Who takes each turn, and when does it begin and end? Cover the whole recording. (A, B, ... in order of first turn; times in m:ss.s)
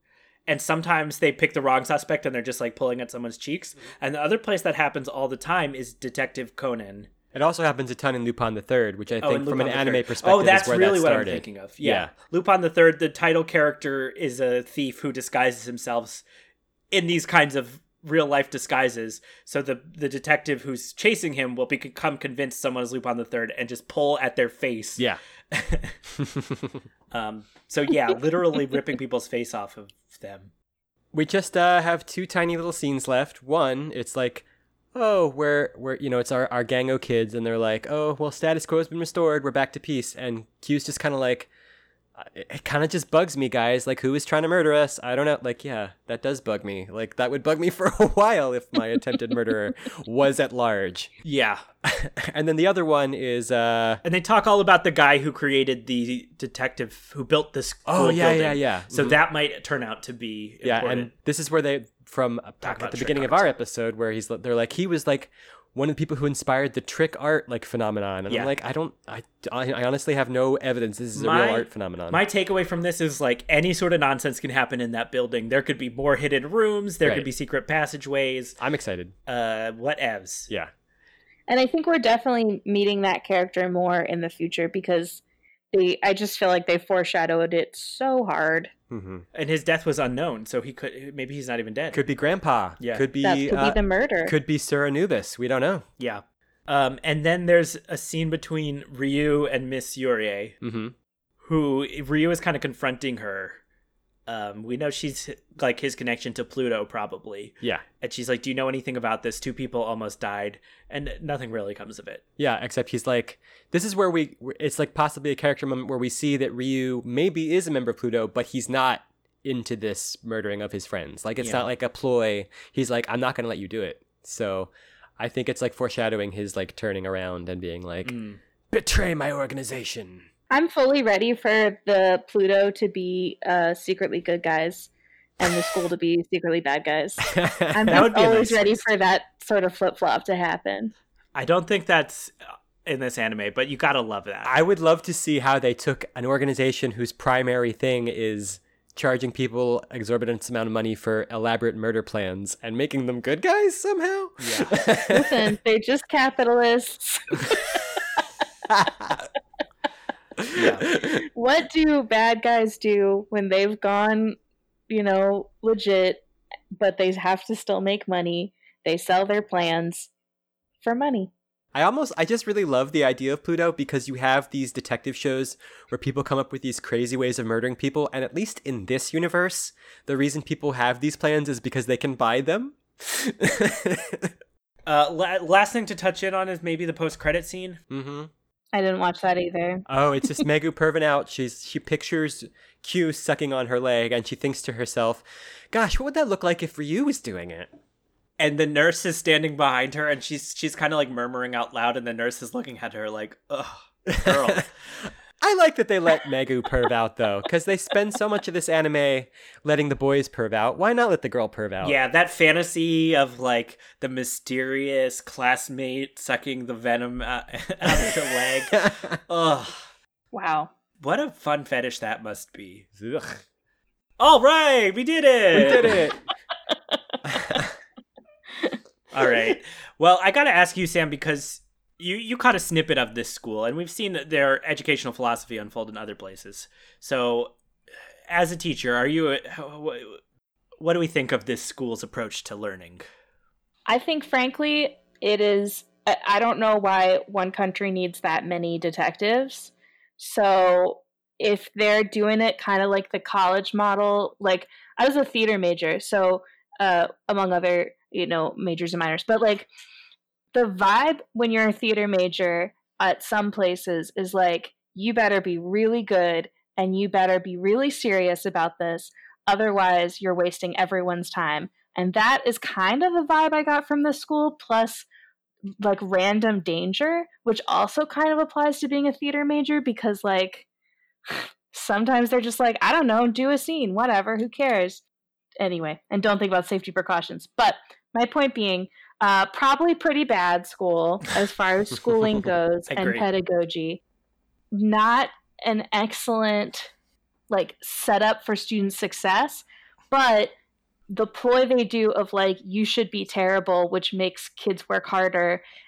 0:00.5-0:07.1 A
0:07.3-0:12.1 B
0:09.2-0:16.2 A
0:16.9-0:26.0 A
0:26.2-0:26.8 B
0:27.1-0:30.5 A
0:31.1-0:41.5 B
0:42.2-0:51.1 B
0:51.2-0:51.6 A
0:51.8-0:54.0 B
0:54.0-1:01.1 A
0:57.9-0:59.2 B
1:00.6-1:12.2 B
1:02.6-1:03.4 A
1:11.2-1:18.6 A
1:17.0-1:17.3 B
1:18.6-1:19.1 B
1:19.3-1:20.5 A
1:21.5-1:28.7 C
1:28.9-1:29.2 B
1:29.3-1:32.0 A
1:31.9-1:35.8 B
1:32.8-1:33.1 A
1:33.2-1:34.3 C
1:36.0-1:40.6 A
1:40.6-1:41.0 B
1:41.4-1:43.6 A
1:44.3-1:52.2 A
1:52.4-2:08.2 B
2:01.4-2:01.7 A
2:08.0-2:08.4 A
2:08.7-2:10.3 B
2:10.5-2:20.9 C
2:17.2-2:18.1 B
2:17.9-2:18.8 A
2:21.4-2:24.6 A
2:24.4-2:35.6 B
2:34.4-2:34.8 A
2:35.1-2:38.0 C
2:38.7-2:39.2 B
2:40.4-2:41.2 B
2:40.5-2:40.9 A
2:41.0-2:44.4 C
2:44.9-2:46.2 C
2:46.7-2:50.1 C
2:50.8-2:51.3 C
2:51.7-3:04.3 B
3:04.9-3:07.8 A
3:07.9-3:08.3 B
3:08.7-3:09.9 C
3:09.9-3:17.7 B
3:18.4-3:24.7 A
3:24.1-3:32.0 B
3:31.8-3:39.9 A
3:38.7-3:39.2 B
3:40.3-3:40.7 C
3:41.0-3:42.9 A
3:43.0-3:43.4 B
3:44.2-3:46.0 A
3:45.5-3:46.2 B
3:47.3-3:47.7 B
3:49.1-3:57.5 A
3:58.3-4:00.2 A
4:00.8-4:03.0 A
4:03.9-4:19.7 C
4:20.5-4:35.1 C
4:35.8-4:40.7 C
4:41.3-4:45.0 C
4:45.6-4:54.0 C
4:52.9-4:53.3 A
4:54.7-4:56.9 C
4:57.5-5:00.5 C
5:01.1-5:05.6 C